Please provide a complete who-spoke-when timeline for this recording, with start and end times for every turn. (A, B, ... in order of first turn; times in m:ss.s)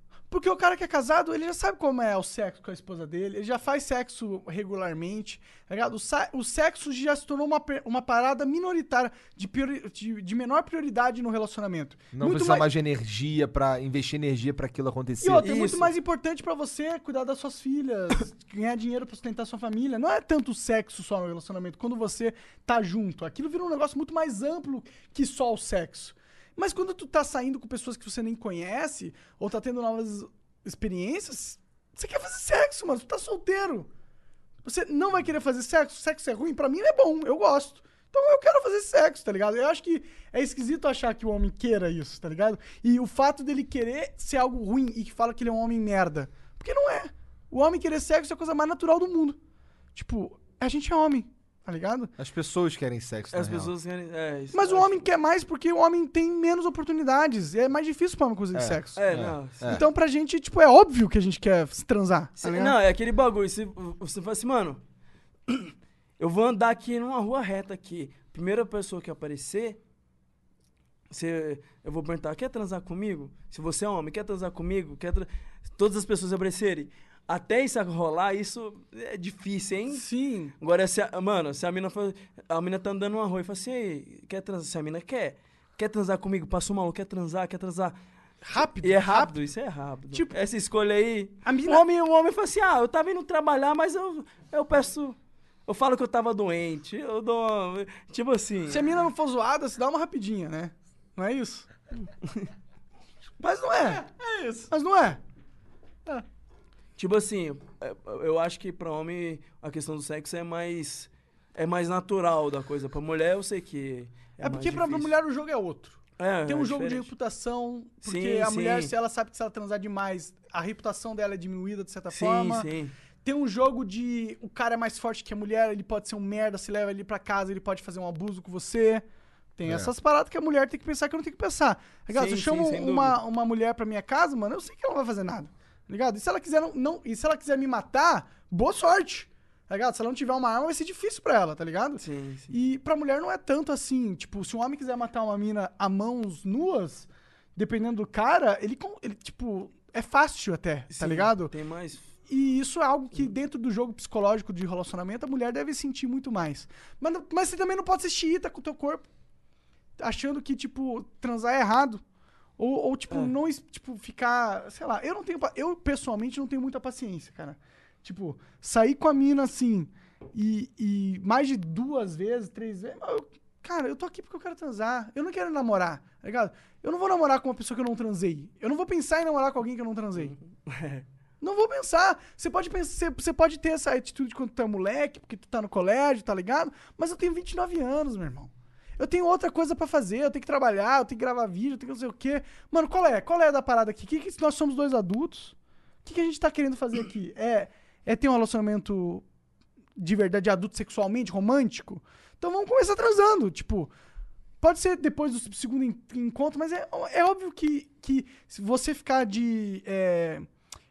0:00.3-0:12.6 A
0:12.1-0:15.6 B
0:15.2-0:33.9 A
0:15.4-0:15.9 C
0:34.6-0:49.4 A
0:49.9-0:52.1 A
0:52.2-0:53.7 B
0:53.3-0:55.1 C
0:54.5-0:59.1 A
0:58.5-0:59.8 B
0:58.9-0:59.8 C
0:59.6-1:02.8 A
1:02.4-1:04.8 C
1:05.5-1:09.8 C
1:11.1-1:20.0 C
1:19.9-1:20.5 A
1:20.6-1:27.9 C
1:28.4-1:29.4 A
1:28.8-1:38.9 C
1:31.4-1:31.8 A
1:38.7-1:41.7 A
1:43.4-1:45.2 A
1:47.0-1:55.1 C
1:54.4-2:02.7 A
1:56.2-1:57.1 C
1:58.0-1:58.9 C
2:02.1-2:02.9 C
2:03.2-2:09.0 A
2:09.6-2:31.5 A
2:09.6-2:09.9 B
2:12.1-2:13.2 C
2:22.0-2:22.6 C
2:30.9-2:32.1 C
2:32.3-2:39.1 A
2:40.0-2:42.0 A
2:42.6-3:00.3 A
3:00.1-3:01.0 C
3:01.4-3:19.2 A
3:20.0-3:23.9 A
3:24.6-3:30.5 A